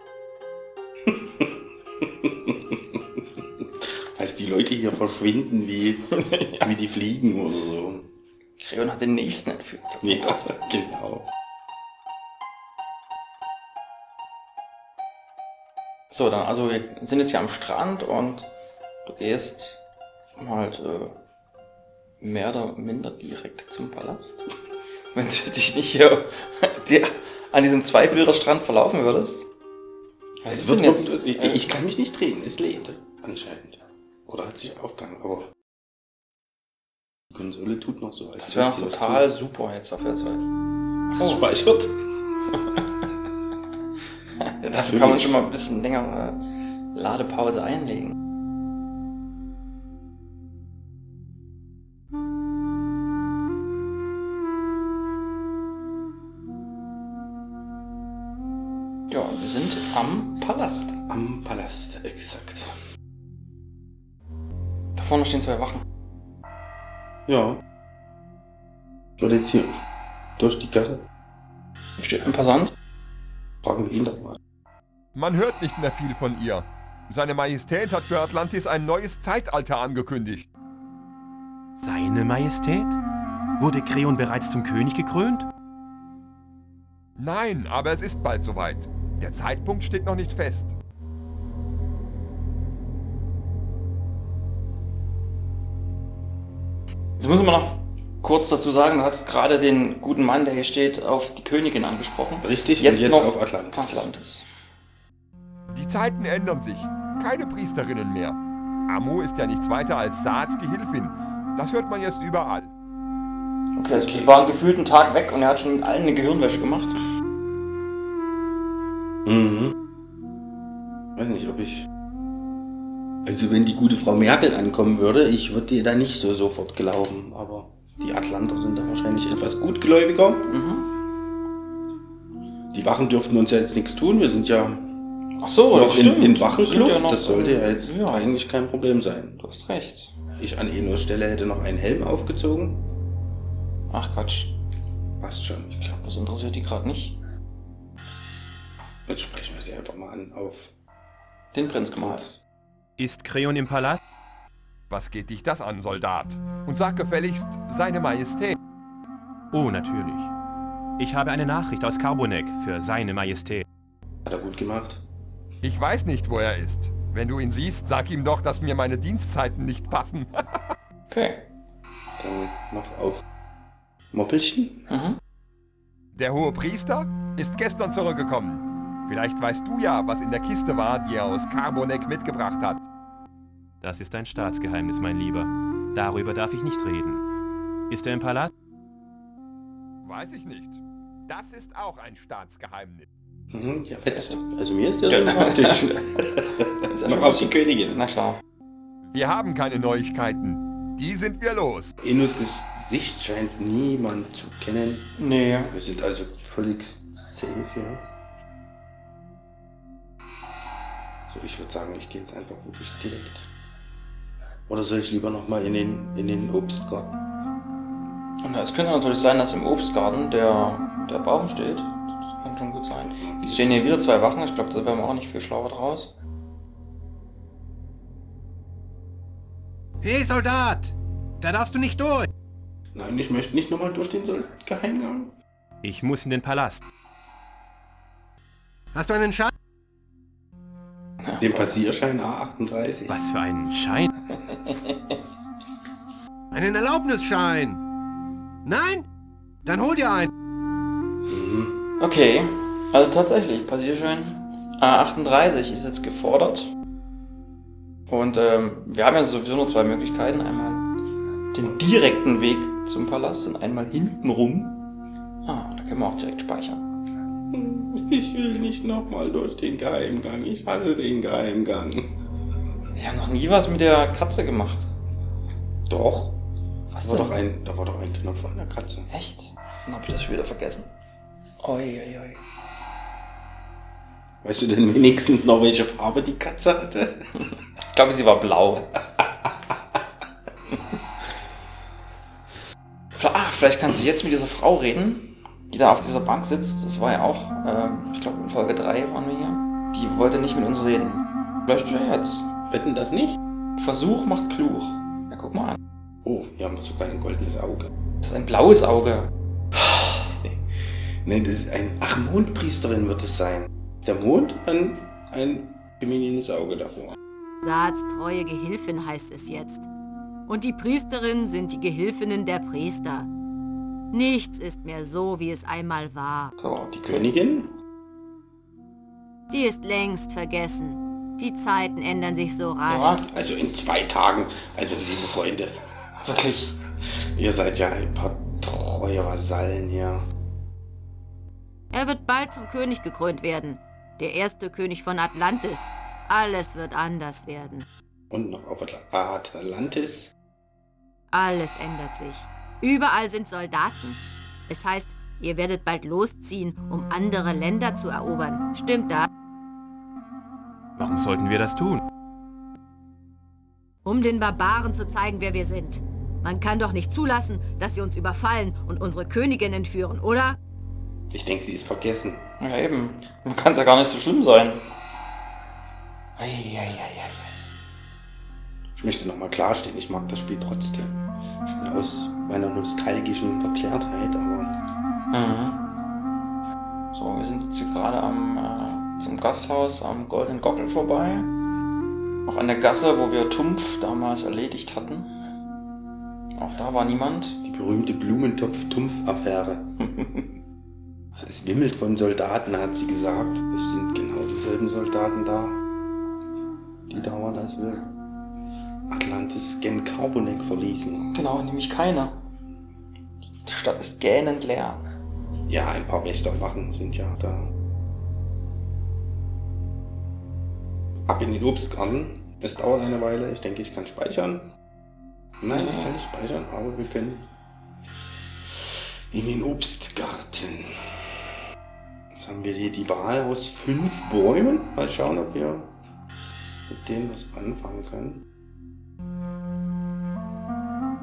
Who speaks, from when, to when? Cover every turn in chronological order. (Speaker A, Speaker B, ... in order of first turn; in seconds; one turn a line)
Speaker A: 1.1-8.1
Speaker B: 6.2-6.6
Speaker B: 8.6-10.5
Speaker A: 10.0-11.3
Speaker B: 16.1-18.5
Speaker B: 19.0-19.8
Speaker B: 20.4-21.1
Speaker B: 22.2-24.4
Speaker B: 25.1-29.5
Speaker B: 30.4-31.7
Speaker A: 30.5-35.5
Speaker A: 37.3-39.3
Speaker B: 38.4-40.5
Speaker A: 41.1-42.0
Speaker B: 44.4-46.4
Speaker A: 44.7-45.4
Speaker B: 46.9-48.1
Speaker B: 59.1-61.0
Speaker A: 61.1-62.7
Speaker B: 65.0-65.8
Speaker A: 67.3-67.6
Speaker A: 69.2-69.7
Speaker A: 70.4-71.0
Speaker B: 72.0-72.7
Speaker A: 73.6-74.4
Speaker C: 75.1-80.5
Speaker D: 81.8-83.0
Speaker D: 83.6-85.5
Speaker C: 87.2-90.7
Speaker B: 97.2-104.5
Speaker A: 102.4-104.1
Speaker C: 105.7-112.7
Speaker B: 113.8-117.0
Speaker A: 113.9-114.3
Speaker A: 119.2-119.7
Speaker A: 121.2-121.9
Speaker A: 123.2-130.5
Speaker B: 130.5-130.9
Speaker A: 132.7-134.9
Speaker B: 135.4-138.3
Speaker A: 135.7-139.4
Speaker B: 139.4-140.2
Speaker A: 140.4-142.8
Speaker B: 143.9-144.6
Speaker A: 145.2-145.9
Speaker B: 145.8-147.2
Speaker A: 149.1-150.7
Speaker B: 151.5-152.3
Speaker A: 152.0-152.4
Speaker D: 153.0-154.0
Speaker C: 154.9-158.6
Speaker D: 159.5-160.3
Speaker D: 161.0-163.6
Speaker A: 164.2-165.0
Speaker C: 165.6-170.4
Speaker B: 171.1-171.4
Speaker A: 172.2-173.2
Speaker A: 174.1-174.8
Speaker B: 174.9-175.2
Speaker C: 176.1-182.9
Speaker D: 183.8-187.2
Speaker D: 187.9-188.5
Speaker C: 190.0-193.1
Speaker A: 193.5-198.0
Speaker B: 195.1-196.1
Speaker B: 196.9-198.4
Speaker C: 199.1-201.9
Speaker A: 202.0-205.1
Speaker B: 205.2-205.7
Speaker A: 205.7-208.0
Speaker A: 211.3-213.5
Speaker A: 214.7-217.2
Speaker B: 218.4-226.1
Speaker A: 223.2-224.0
Speaker E: 230.0-232.3
Speaker A: 232.9-235.3
Speaker D: 235.8-236.8
Speaker E: 238.9-239.5
Speaker B: 241.2-241.8
Speaker A: 241.4-243.2
Speaker D: 243.1-244.1
Speaker B: 244.7-244.9
Speaker E: 246.5-247.8
Speaker E: 248.7-249.0
Speaker E: 249.7-250.3
Speaker A: 251.3-251.8
Speaker B: 252.0-256.7
Speaker B: 258.1-260.8
Speaker B: 261.5-264.8
Speaker B: 265.4-266.8
Speaker A: 267.5-272.1
Speaker B: 272.9-274.9
Speaker A: 275.9-276.4
Speaker B: 276.9-277.4
Speaker A: 277.0-279.1
Speaker B: 279.1-280.9
Speaker B: 281.6-282.4
Speaker A: 284.4-287.3
Speaker B: 287.9-289.0
Speaker B: 293.1-302.4
Speaker A: 302.7-303.4
Speaker B: 303.8-305.8
Speaker A: 306.2-307.9
Speaker B: 308.2-309.3
Speaker A: 309.9-310.6
Speaker A: 311.2-317.1
Speaker F: 317.6-319.8
Speaker F: 320.5-323.2
Speaker F: 324.1-326.5
Speaker B: 326.6-327.3
Speaker A: 327.0-327.7
Speaker F: 329.5-333.1
Speaker B: 332.9-333.2
Speaker A: 333.3-335.7
Speaker B: 336.2-336.7
Speaker A: 337.3-340.2
Speaker F: 341.9-345.8
Speaker F: 346.4-347.6
Speaker A: 348.3-350.3
Speaker D: 361.0-362.0
Speaker A: 371.3-372.4
Speaker B: 372.6-374.8
Speaker B: 376.4-377.5
Speaker A: 379.0-384.7
Speaker B: 385.3-385.8
Speaker B: 387.1-391.5
Speaker B: 392.4-395.3
Speaker B: 396.5-397.6
Speaker A: 397.6-399.9
Speaker B: 400.1-400.4
Speaker A: 401.4-405.8
Speaker A: 407.1-408.1
Speaker A: 409.1-411.3
Speaker B: 411.3-412.4
Speaker B: 413.6-415.0
Speaker A: 415.7-417.7
Speaker A: 421.2-424.7
Speaker A: 425.6-427.5
Speaker B: 425.7-426.1
Speaker A: 429.3-431.2
Speaker A: 432.3-435.9
Speaker A: 436.9-438.4